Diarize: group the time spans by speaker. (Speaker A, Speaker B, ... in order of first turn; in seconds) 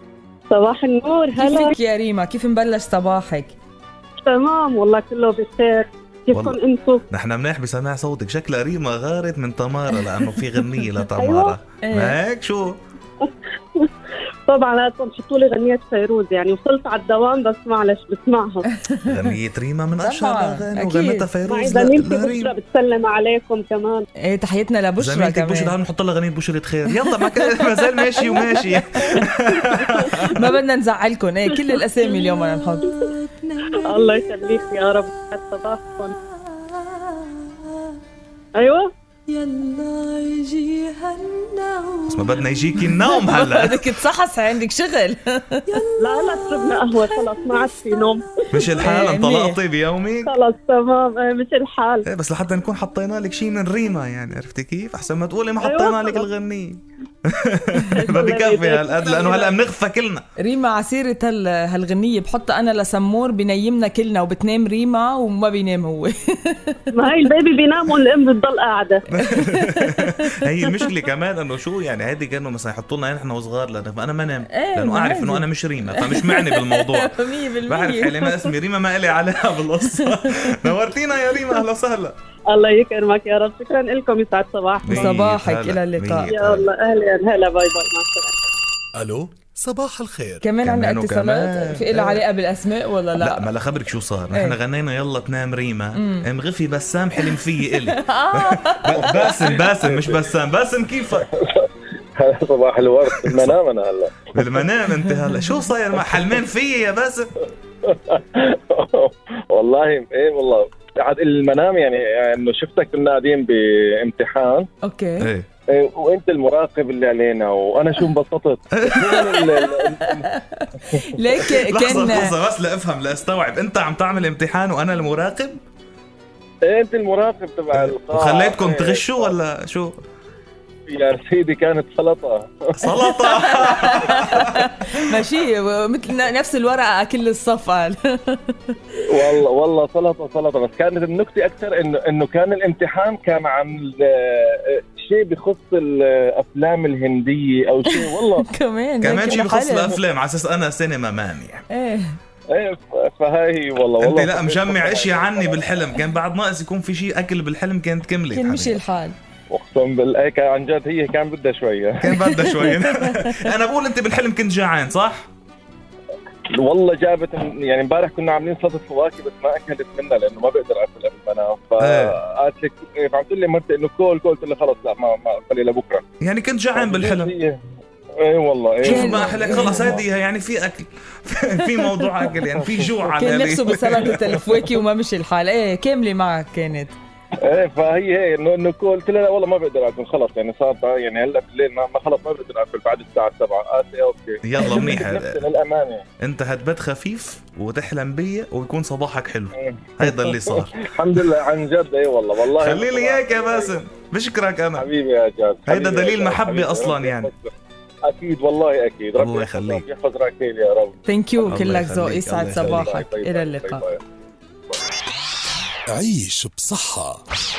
Speaker A: 0.5-1.8, 4.2-7.0, 11.2-11.6, 13.2-13.9, 14.5-18.6, 21.4-24.1, 33.7-36.1, 38.5-38.9, 46.0-48.8, 50.2-52.1, 55.6-56.3, 57.9-59.6, 66.9-69.0, 82.5-85.1, 86.3-88.4
Speaker B: 1.4-3.5, 11.8-12.2, 18.8-19.3, 20.0-21.3, 24.2-25.7, 27.0-29.2, 30.2-33.0, 43.2-45.8, 48.8-49.6, 60.4-67.1, 69.2-70.1, 74.5-78.2, 80.0-80.7, 84.9-86.3, 90.4-93.5, 94.3-94.6, 96.0-96.2, 97.8-99.2, 114.8-115.3, 119.7-122.3, 133.1-138.7, 148.4-150.0, 151.7-152.2, 158.3-159.2, 162.4-163.5, 178.8-179.9, 183.1-186.9, 211.1-213.8
Speaker C: 6.3-6.6, 7.1-12.8, 19.1-22.5, 25.0-30.4, 42.1-43.9, 48.5-50.3, 52.0-60.2, 69.1-82.2, 84.8-86.7, 90.6-92.2, 93.2-101.3, 103.3-103.6, 104.3-107.3, 115.2-115.5, 118.8-119.3, 121.4-125.6, 127.7-130.0, 132.8-134.5, 149.0-151.6, 154.0-158.8, 162.0-165.3, 171.8-172.2, 176.2-177.3, 178.8-184.4, 194.4-195.4, 196.2-201.3, 202.4-204.8, 205.7-207.3, 209.2-209.8, 211.4-213.0
Speaker D: 32.9-34.2, 36.5-37.4, 39.3-42.1, 45.7-47.2
Speaker E: 88.9-90.5, 215.9-217.2
Speaker F: 99.0-100.2, 101.2-104.3, 107.8-114.7, 115.7-120.3, 126.6-129.3, 130.9-132.9, 139.0-148.5, 152.5-155.7, 159.5-162.2, 166.5-176.0, 176.7-177.6, 178.2-180.0, 187.4-196.0, 199.6-203.8, 204.8-207.5, 208.0-211.0, 212.5-214.0